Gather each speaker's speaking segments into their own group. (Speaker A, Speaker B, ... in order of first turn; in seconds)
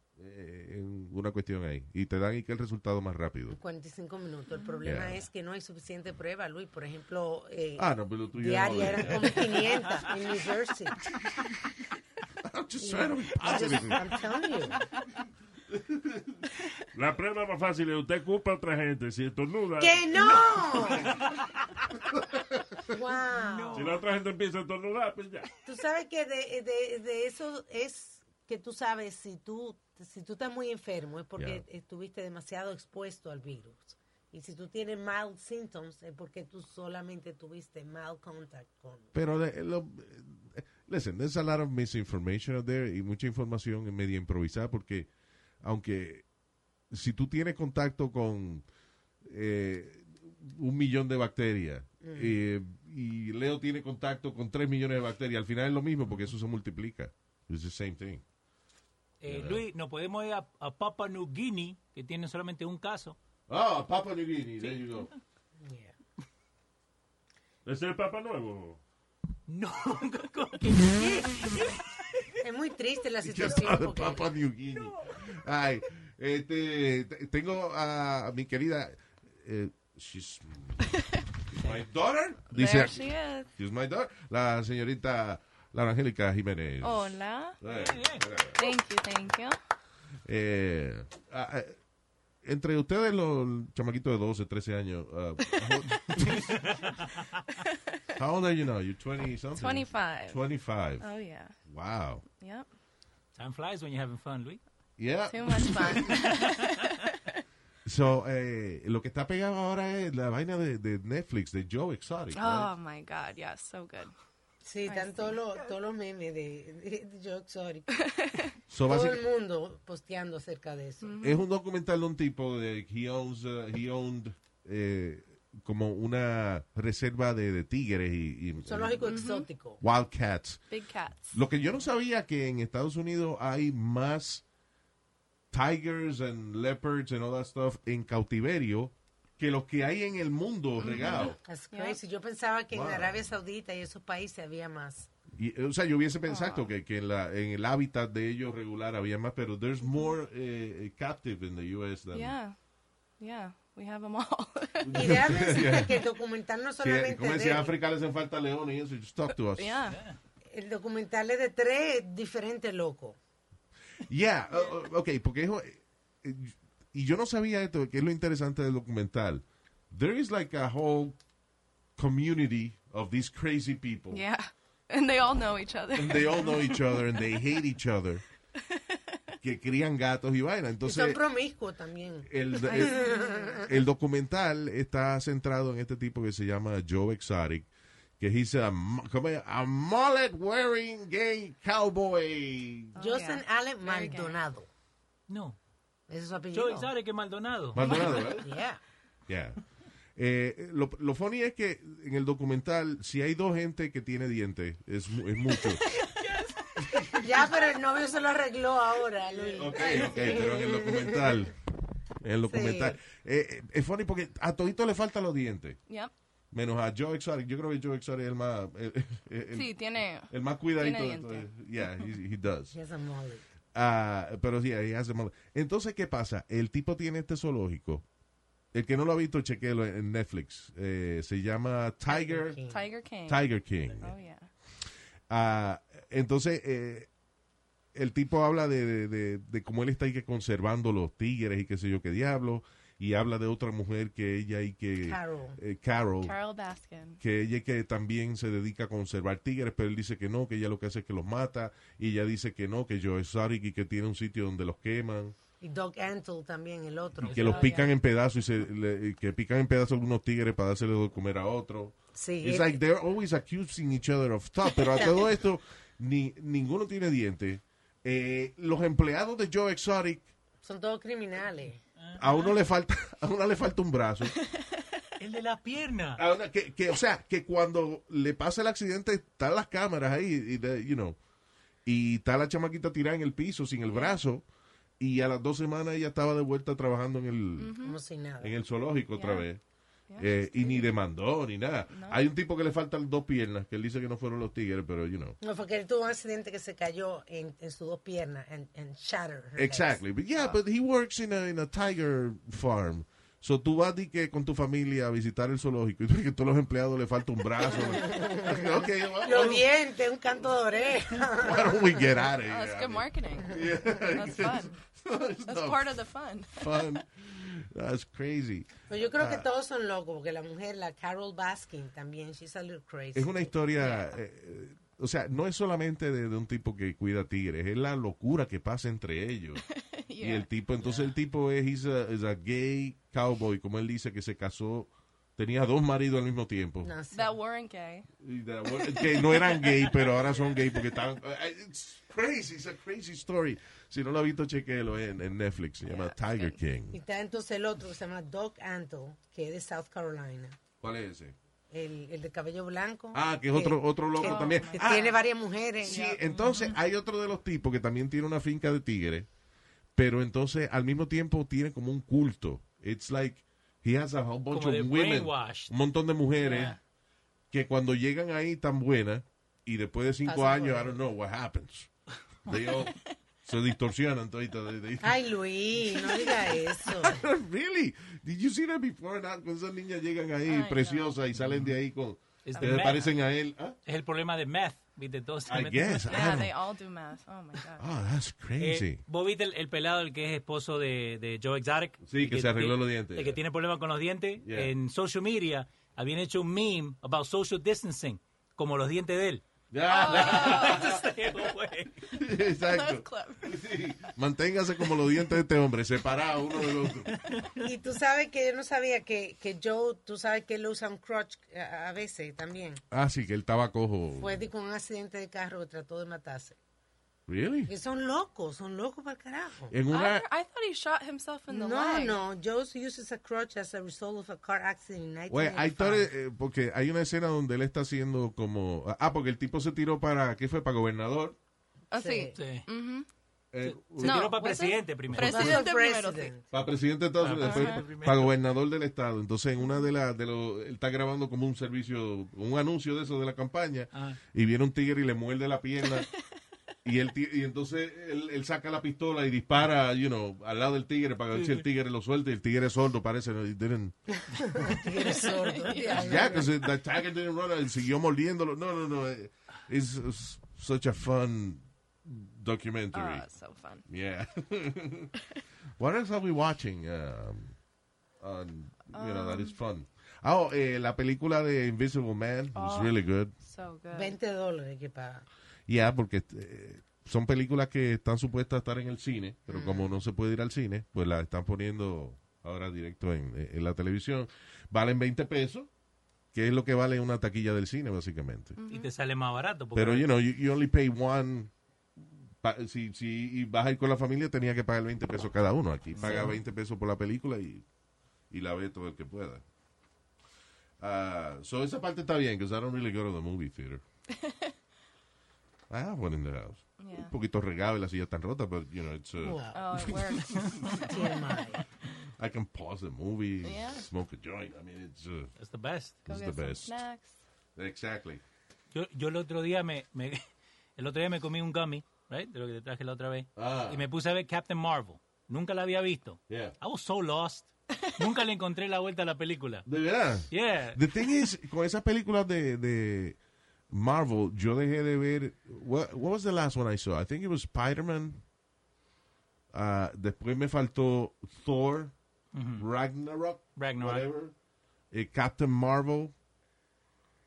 Speaker A: 0.2-3.6, 4.8-5.2, 7.8-9.6, 12.4-14.0, 15.9-16.2, 31.4-31.6, 39.1-45.1, 45.6-46.2, 46.9-48.6, 49.2-58.2, 59.3-59.6, 63.5-65.1, 73.2-80.8, 81.5-88.7, 90.3-91.8, 92.4-96.6, 98.2-101.1, 101.7-102.2, 105.0-106.1, 107.9-112.7, 118.7-119.2, 121.2-129.1, 129.8-130.6, 131.3-134.4, 135.5-141.4, 142.7-143.2, 145.4-152.4, 154.8-156.0, 156.8-159.8, 164.1-171.2, 172.0-174.2, 175.9-178.2, 179.4-181.2, 182.3-187.7, 188.2-193.0, 197.7-198.5, 199.3-199.6, 200.2-205.8, 209.3-211.5, 212.2-215.8, 216.5-222.8, 223.7-228.1, 228.7-232.6, 233.3-234.2, 235.3-237.1, 237.9-246.4, 247.2-255.3, 257.3-270.3, 272.2-274.4, 276.2-281.2, 281.9-284.4, 285.0-287.8, 288.4-289.6, 290.2-295.4, 299.6-309.7, 311.3-316.0, 316.5-319.5, 323.1-329.6, 330.2-336.9, 338.2-347.0, 350.8-351.4, 353.1-355.2, 355.8-359.3, 360.0-366.8, 367.5-371.9, 372.5-372.9, 373.4-375.2, 376.9-383.8, 385.5-386.5, 387.8-389.0, 392.0-393.4, 394.4-394.7, 399.7-401.5, 402.1-407.1, 412.9-414.4, 417.3-417.7, 419.7-420.3, 425.3-431.4, 433.5-434.3, 436.5-446.1, 446.9-454.0, 455.9-463.3, 463.9-465.1, 465.8-467.6, 468.2-473.3, 475.7-485.7, 486.3-488.6, 489.8-491.5, 492.0-497.6, 498.3-499.4, 500.8-503.8, 505.7-510.7, 512.2-515.3, 516.1-516.8, 517.6-518.2, 523.4-523.8, 526.3-526.5, 529.7-533.2, 533.7-538.2, 539.5-541.9, 542.6-544.3, 544.9-546.1
Speaker B: 3.5-11.0, 12.8-14.8, 19.8-21.1, 22.9-23.9, 25.6-39.1, 52.0-52.4, 65.6-65.9, 72.4-74.3, 114.6-117.9, 118.8-121.1, 128.6-129.8, 141.0-145.1, 154.9-157.7, 160.5-163.2, 180.8-183.7, 193.0-194.7, 196.1-196.9, 197.8-198.8, 207.2-211.5, 212.5-213.0, 222.7-223.4, 232.1-232.9, 245.0-245.6, 255.6-257.7, 262.1-262.8, 270.6-271.8, 287.8-288.5, 295.4-300.6, 307.7-312.2, 318.9-323.5, 336.8-337.4, 346.9-350.6, 351.7-356.2, 370.2-371.0, 375.0-377.2, 407.6-412.8, 414.2-416.6, 417.7-419.8, 421.5-426.1, 431.9-432.4, 435.2-436.4, 454.1-456.5, 473.9-475.2, 479.5-479.9, 509.2-509.6, 510.9-511.6
Speaker C: 16.9-20.4, 23.7-25.5, 67.7-68.8
Speaker D: 23.4-24.0, 59.2-63.2, 69.5-71.8, 87.7-88.3, 103.3-104.6, 159.9-160.2, 195.3-195.6, 196.5-198.1, 272.0-272.5, 275.2-276.2, 356.4-356.7, 364.5-365.7, 366.4-366.8, 381.4-381.7, 382.4-383.1, 383.9-386.4, 388.6-399.4, 400.0-401.9, 407.2-407.5, 432.4-432.7, 433.6-435.6, 437.2-438.3, 443.9-444.2, 451.4-451.6, 488.7-490.1, 496.0-496.4, 515.4-516.0, 518.7-520.2, 520.8-529.7, 530.3-531.1, 542.3-542.7, 543.6-544.1
Speaker E: 82.5-83.5, 86.8-87.6, 88.6-89.6, 99.6-100.4, 101.0-101.6, 102.3-102.7, 105.3-107.2, 112.3-114.1, 114.9-115.7, 117.9-118.5, 121.0-121.5, 129.0-129.5, 130.7-131.4, 140.8-142.0, 146.3-146.7, 152.1-152.6, 153.2-155.2, 159.5-160.0, 174.1-177.2, 178.7-179.0, 182.7-183.6, 193.0-194.4, 205.6-206.2, 215.9-216.1, 219.5-221.5, 232.7-233.5, 234.0-234.5, 246.2-247.2, 257.4-257.9, 283.9-284.2, 287.6-288.0, 289.1-289.5, 290.1-290.9, 291.9-292.2, 312.4-314.8, 315.5-316.7, 323.8-324.1, 329.6-330.5, 337.1-338.1, 338.7-339.9, 345.9-346.6, 354.2-355.1, 380.5-381.2, 386.1-387.8, 399.9-400.9, 402.2-403.6, 419.9-422.2, 431.9-433.1, 434.0-436.3, 437.4-437.9, 455.1-456.4, 462.9-463.9, 468.9-469.6, 472.6-474.2, 488.6-488.9, 504.1-504.5, 506.8-507.1, 509.5-511.3, 513.4-513.9, 516.1-517.2